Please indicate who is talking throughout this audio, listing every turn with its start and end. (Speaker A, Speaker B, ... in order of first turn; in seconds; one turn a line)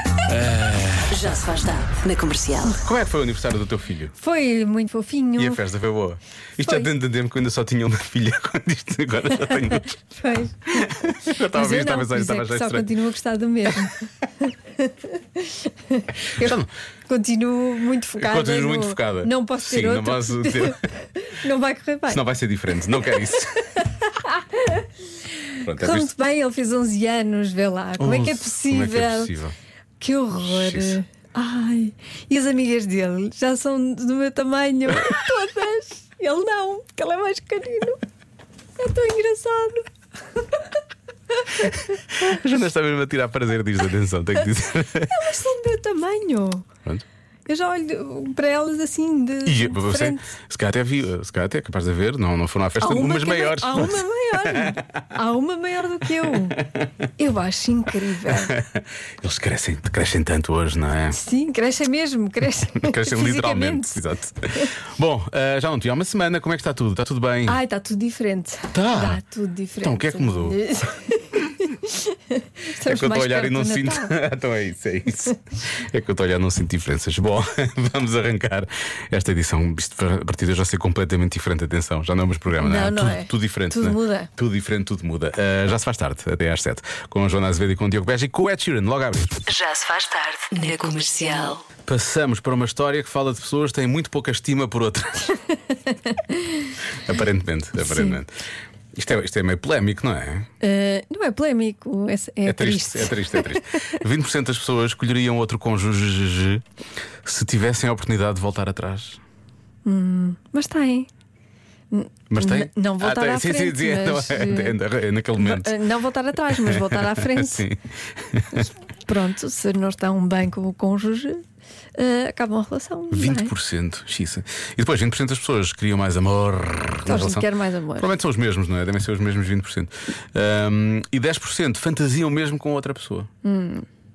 Speaker A: 0.3-1.1
Speaker B: 1.1-2.8
Speaker A: 2.8-4.1
Speaker C: 4.2-5.6
Speaker A: 5.4-10.0
Speaker C: 10.2-22.2
Speaker A: 10.7-12.8
Speaker A: 16.4-16.7
Speaker A: 18.2-20.8
Speaker A: 22.1-23.6
Speaker C: 24.0-24.8
Speaker A: 25.6-26.1
Speaker C: 25.7-29.3
Speaker A: 28.0-29.5
Speaker C: 30.0-38.0
Speaker A: 30.4-31.0
Speaker C: 38.8-40.6
Speaker C: 41.4-41.9
Speaker A: 42.1-45.1
Speaker C: 45.1-46.6
Speaker C: 47.5-50.3
Speaker A: 49.4-54.6
Speaker C: 52.8-56.6
Speaker C: 57.2-58.5
Speaker A: 58.4-61.2
Speaker C: 61.1-64.0
Speaker A: 62.8-67.6
Speaker C: 67.5-74.1
Speaker A: 68.7-69.2
Speaker A: 69.8-70.6
Speaker A: 72.8-89.4
Speaker C: 82.5-84.3
Speaker B: 89.5-91.6
Speaker A: 91.8-95.3
Speaker C: 96.1-96.4
Speaker A: 97.0-98.3
Speaker C: 97.8-98.1
Speaker A: 98.9-100.5
Speaker C: 100.6-103.6
Speaker A: 102.4-106.6
Speaker A: 107.2-109.2
Speaker C: 109.8-111.1
Speaker C: 111.9-114.8
Speaker A: 112.3-115.8
Speaker C: 115.4-117.7
Speaker A: 116.6-117.8
Speaker A: 118.3-118.7
Speaker C: 119.1-121.4
Speaker C: 122.0-123.5
Speaker A: 123.1-133.3
Speaker C: 127.0-128.1
Speaker C: 133.4-133.8